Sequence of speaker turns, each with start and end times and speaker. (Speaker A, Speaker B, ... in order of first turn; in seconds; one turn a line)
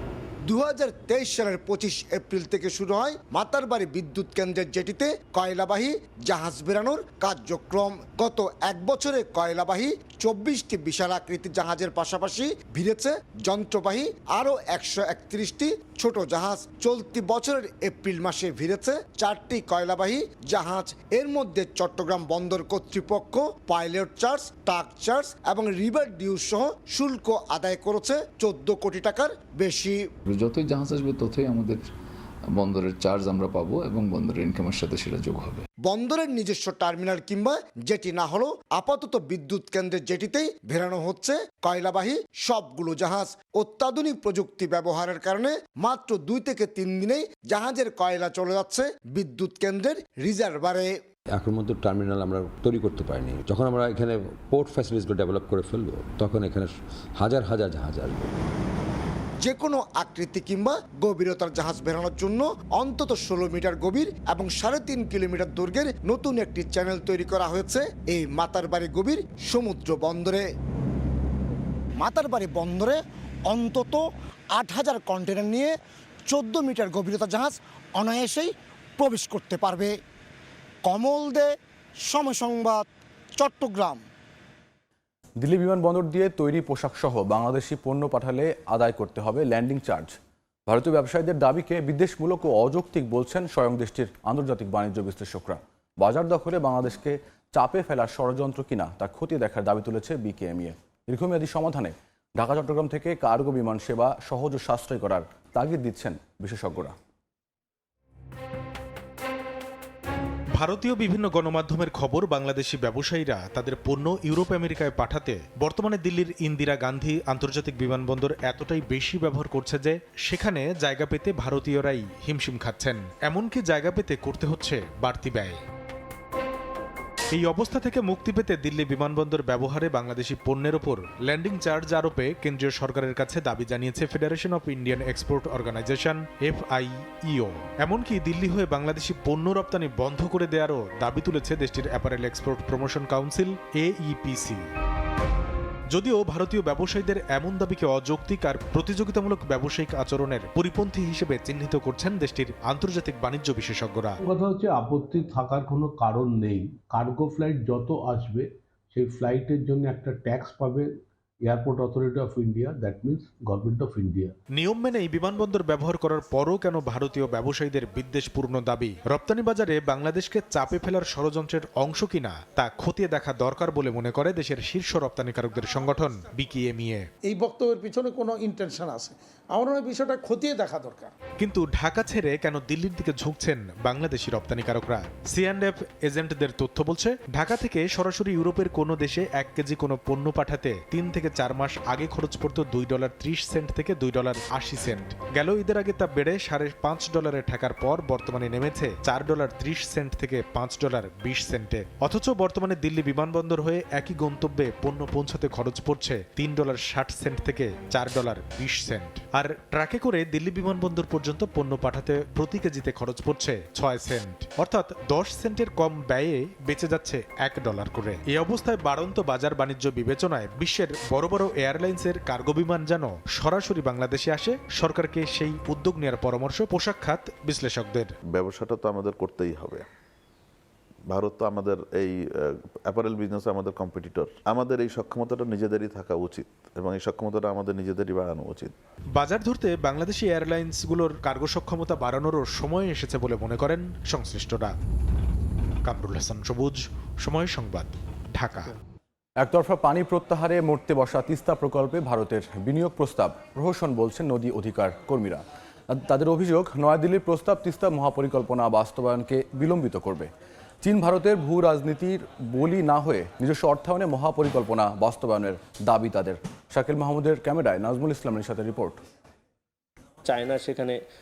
Speaker A: 0.5-30.0
Speaker B: 30.3-31.8
Speaker B: 32.5-35.6
Speaker A: 35.8-50.9
Speaker C: 51.3-58.3
Speaker A: 59.4-70.4
Speaker A: 72.0-74.0
Speaker A: 74.5-75.7
Speaker A: 76.3-79.9
Speaker A: 80.8-81.5
Speaker A: 82.1-82.8
Speaker A: 83.4-84.0
Speaker D: 85.4-90.1
Speaker D: 90.7-106.9
Speaker E: 110.6-125.6
Speaker E: 127.3-144.7
Speaker E: 145.9-154.2
Speaker F: 154.2-160.9
Speaker F: 161.4-164.3
Speaker E: 164.5-177.1
Speaker G: 177.3-181.1
Speaker E: 181.4-228.1
Speaker H: 228.3-229.8
Speaker H: 231.1-238.7
Speaker E: 239.1-244.8
Speaker E: 245.8-248.7
Speaker D: 249.4-260.3
Speaker D: 260.8-269.0
Speaker C: 270.2-270.9